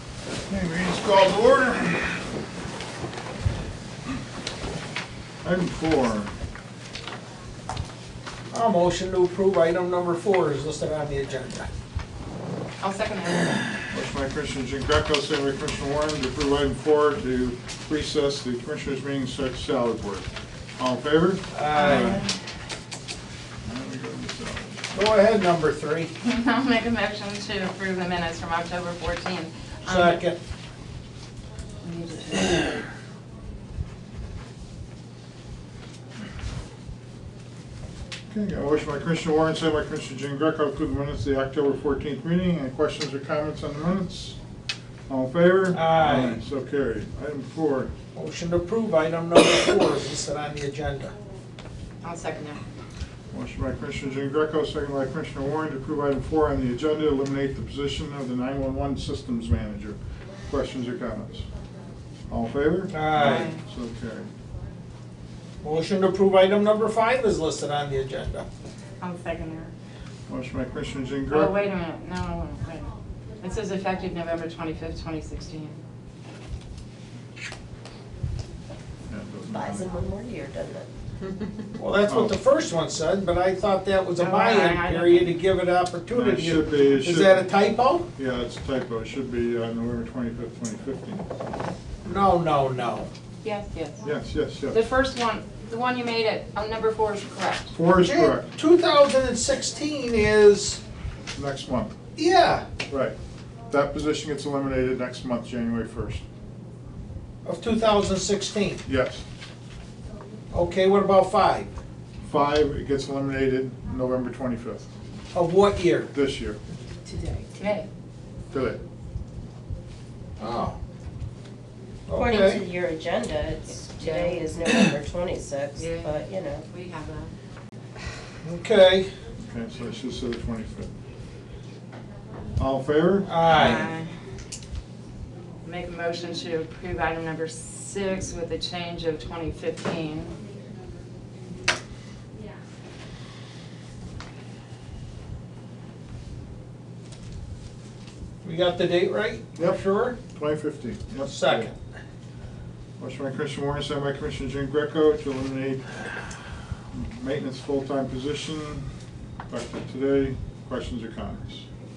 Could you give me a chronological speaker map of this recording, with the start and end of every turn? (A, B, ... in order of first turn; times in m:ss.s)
0:00.5-0:02.2 A
0:05.4-0:06.3 A
0:08.5-0:11.7 B
0:12.8-0:13.6 C
0:13.9-0:22.3 A
0:21.5-0:22.3 B
0:21.7-0:22.3 C
0:23.6-0:24.8 A
0:24.9-0:26.1 B
0:26.2-0:30.2 C
0:29.9-0:30.4 B
0:31.8-0:32.8 C
0:38.3-0:44.4 A
0:45.1-0:47.9 A
0:45.7-0:46.4 B
0:48.1-0:51.1 B
0:52.0-0:52.6 C
0:53.3-1:01.5 A
1:02.3-1:04.3 A
1:02.9-1:03.5 B
1:03.2-1:03.6 C
1:05.6-1:08.5 B
1:09.0-1:09.7 C
1:10.3-1:11.6 A
1:11.3-1:15.8 C
1:19.1-1:19.9 A
1:19.5-1:20.9 D
1:21.8-1:28.1 B
1:22.1-1:22.4 A
1:24.2-1:25.4 C
1:26.1-1:27.6 A
1:28.2-1:31.3 A
1:32.0-1:33.1 B
1:33.4-1:34.0 C
1:34.0-1:34.8 A
1:34.7-1:37.7 C
1:37.7-1:38.5 A
1:38.0-1:40.8 B
1:41.4-1:42.0 A
1:42.2-1:42.7 B
1:42.9-1:43.2 A
1:43.7-1:46.2 A
1:47.4-1:48.8 B
1:48.8-1:49.2 A
1:50.5-1:51.7 B
1:52.2-1:54.9 A
1:55.3-1:56.1 B
1:56.1-1:56.6 A
1:57.6-1:57.9 C
1:58.5-1:58.8 A
2:00.4-2:00.8 B
2:02.1-2:02.6 B
2:02.1-2:06.6 D
2:03.7-2:04.5 C
2:05.8-2:07.3 C
2:08.4-2:09.1 B
2:09.4-2:10.9 A
2:12.6-2:13.7 A
2:13.2-2:13.9 B
2:13.4-2:14.1 C
2:15.6-2:20.4 C
2:28.4-2:30.2 B
2:29.6-2:31.7 A
2:31.2-2:31.8 B
2:33.0-2:36.2 A
2:36.9-2:38.9 A
2:39.5-2:41.7 A